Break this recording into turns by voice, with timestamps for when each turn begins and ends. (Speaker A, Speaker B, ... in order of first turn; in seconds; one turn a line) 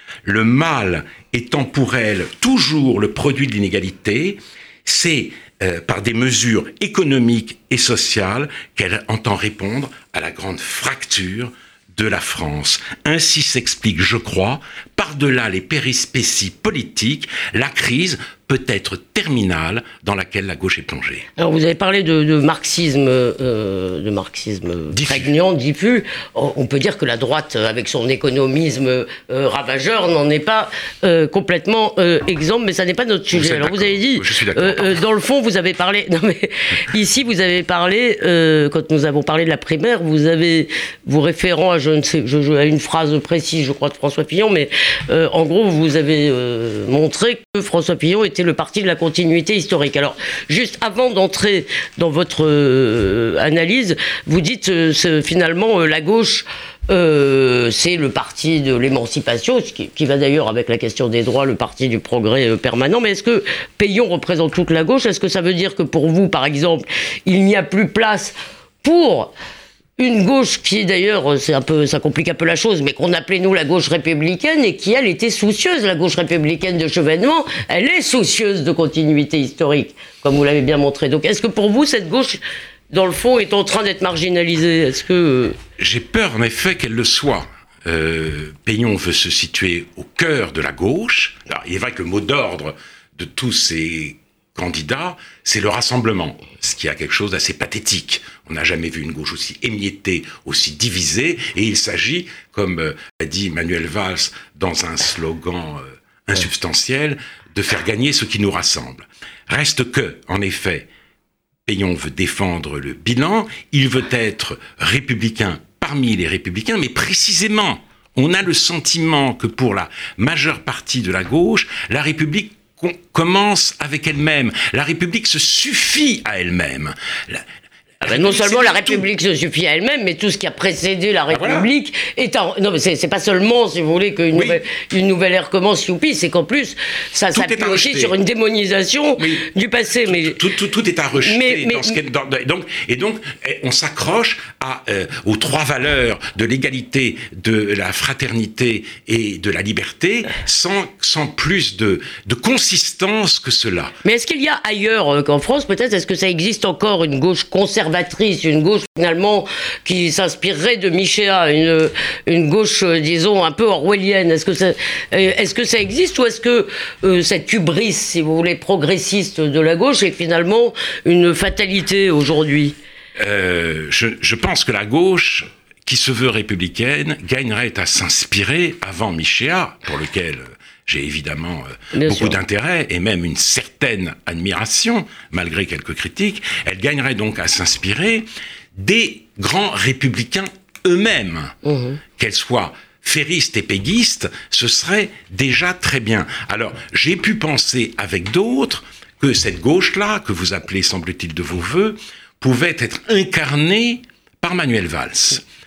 Speaker A: 0.2-21.2
Speaker B: 21.4-69.3
Speaker A: 24.9-25.3
Speaker A: 33.3-35.0
Speaker B: 70.0-82.4
Speaker B: 82.9-85.6
Speaker A: 85.8-110.9
Speaker A: 111.7-127.5
Speaker A: 128.0-129.1
Speaker B: 128.0-140.4
Speaker A: 131.3-131.7
Speaker A: 134.3-134.6
Speaker A: 137.3-138.1
Speaker A: 140.1-153.9
Speaker B: 141.2-142.0
Speaker B: 154.0-172.8
Speaker A: 173.2-191.6
Speaker B: 181.9-182.4
Speaker B: 191.6-192.0
Speaker A: 192.2-205.4